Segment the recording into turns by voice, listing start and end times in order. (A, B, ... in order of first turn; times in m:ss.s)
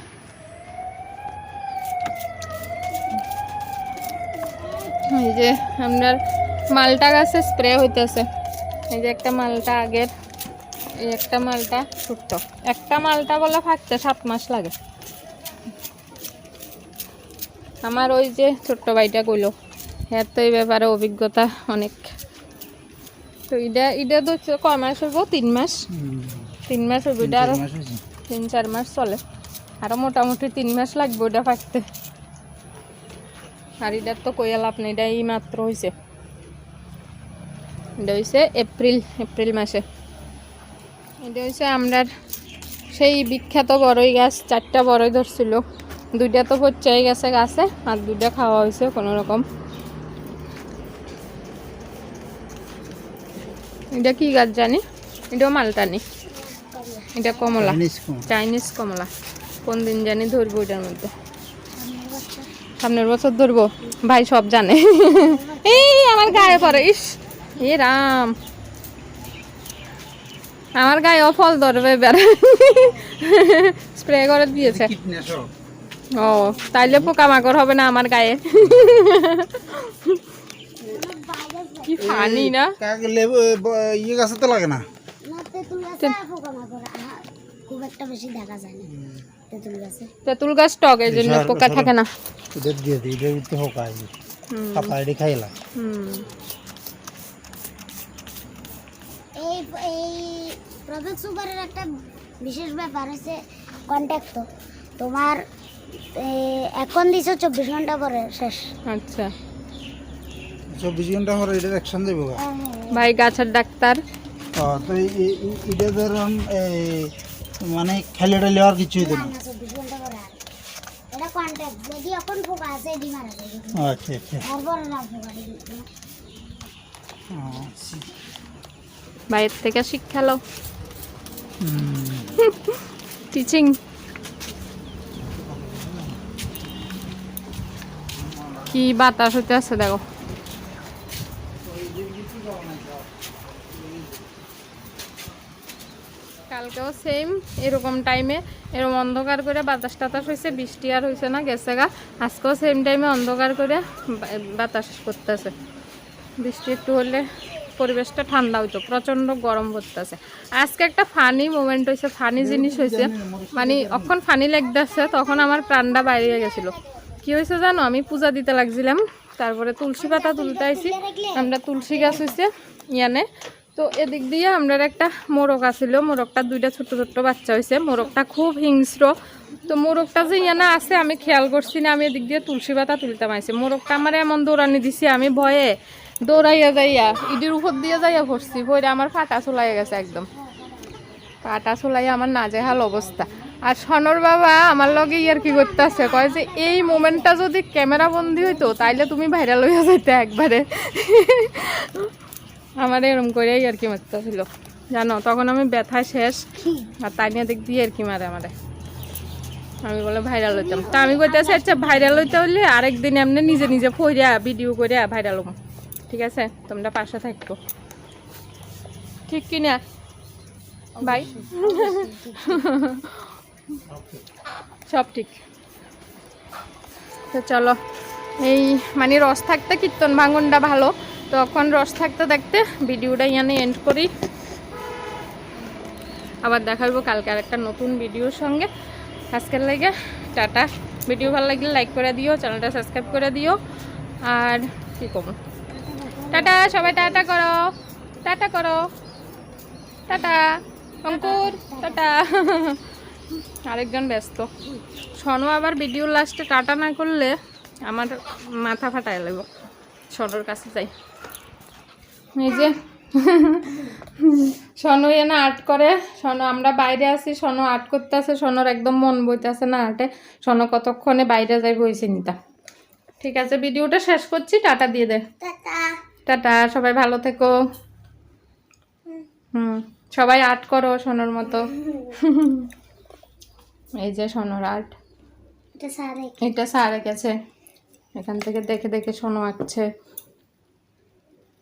0:05.1-0:06.2 A
0:06.7-0:08.2 A
0:08.9-0:10.1 A
0:11.0-0:14.7 A
0:17.8-0:19.5 A
0:20.1-0:22.1 A
0:23.5-0:25.8 A
0:25.9-0:26.5 B
0:26.7-0:27.6 A
0:27.2-0:28.0 B
0:28.3-0:29.2 A
0:29.8-0:31.8 A
0:33.8-0:35.9 A
0:38.0-0:39.8 A
0:41.2-0:42.1 A
0:42.9-0:45.6 A
0:46.1-0:49.4 A
0:53.9-0:56.0 A
0:56.3-0:57.6 C
0:57.1-0:59.1 A
0:57.6-0:58.3 B
0:59.6-1:01.1 A
1:01.7-1:02.5 C
1:02.8-1:08.3 A
1:05.1-1:06.8 C
1:10.8-1:14.9 A
1:12.7-1:13.1 C
1:14.6-1:15.5 B
1:16.1-1:20.2 A
1:16.2-1:16.9 C
1:20.8-1:22.1 C
1:21.8-1:22.8 A
1:22.0-1:24.9 B
1:25.2-1:28.9 C
1:28.9-1:29.2 B
1:29.5-1:30.1 C
1:30.2-1:32.1 A
1:31.1-1:31.9 B
1:32.5-1:34.1 B
1:34.5-1:35.0 A
1:34.7-1:35.5 B
1:35.8-1:36.3 A
1:39.4-1:41.9 C
1:42.4-1:44.5 C
1:45.0-1:45.4 C
1:46.1-1:48.7 C
1:48.9-1:49.3 A
1:50.7-1:52.4 B
1:52.4-1:53.0 C
1:52.9-1:54.0 A
1:54.5-1:59.3 B
1:59.0-2:00.4 C
2:01.1-2:03.8 C
2:03.7-2:04.4 B
2:04.4-2:05.9 C
2:07.3-2:08.0 B
2:09.3-2:10.4 A
2:11.6-2:12.3 B
2:12.4-2:12.8 A
2:13.3-2:13.7 A
2:15.2-2:16.2 B
2:18.2-2:18.8 B
2:18.7-2:20.0 A
2:21.6-2:24.3 B
2:26.5-2:35.5 A
2:36.4-2:59.1 A
2:42.4-2:44.1 B
2:45.0-2:45.7 C
2:50.0-2:52.3 C
2:59.7-3:10.3 A
3:07.9-3:08.5 C
3:10.3-3:11.2 C
3:11.4-3:22.1 A
3:15.0-3:17.4 C
3:18.2-3:19.1 C
3:22.8-3:28.5 A
3:26.6-3:26.9 C
3:29.8-3:35.5 A
3:30.5-3:32.4 C
3:36.1-3:37.6 A
3:39.3-3:39.8 A
3:41.0-3:42.6 C
3:41.0-3:43.3 A
3:43.9-3:44.2 B
3:44.9-3:45.4 A
3:47.3-3:47.8 A
3:48.4-3:54.1 A
3:56.4-3:58.7 A
3:59.3-4:03.6 A
4:04.2-4:05.4 A
4:05.7-4:07.3 C
4:06.3-4:07.6 A
4:08.2-4:08.8 A
4:10.1-4:12.8 A
4:11.1-4:12.0 C
4:13.6-4:14.5 A
4:15.2-4:17.3 A
4:17.8-4:19.5 A
4:20.1-4:20.9 A
4:22.4-4:32.3 A
4:33.2-4:35.2 A
4:35.4-4:35.9 C
4:36.3-4:37.5 A
4:39.5-4:42.7 A
4:44.0-4:44.9 A
4:45.8-4:46.3 C
4:46.4-4:47.3 A
4:48.2-4:49.8 A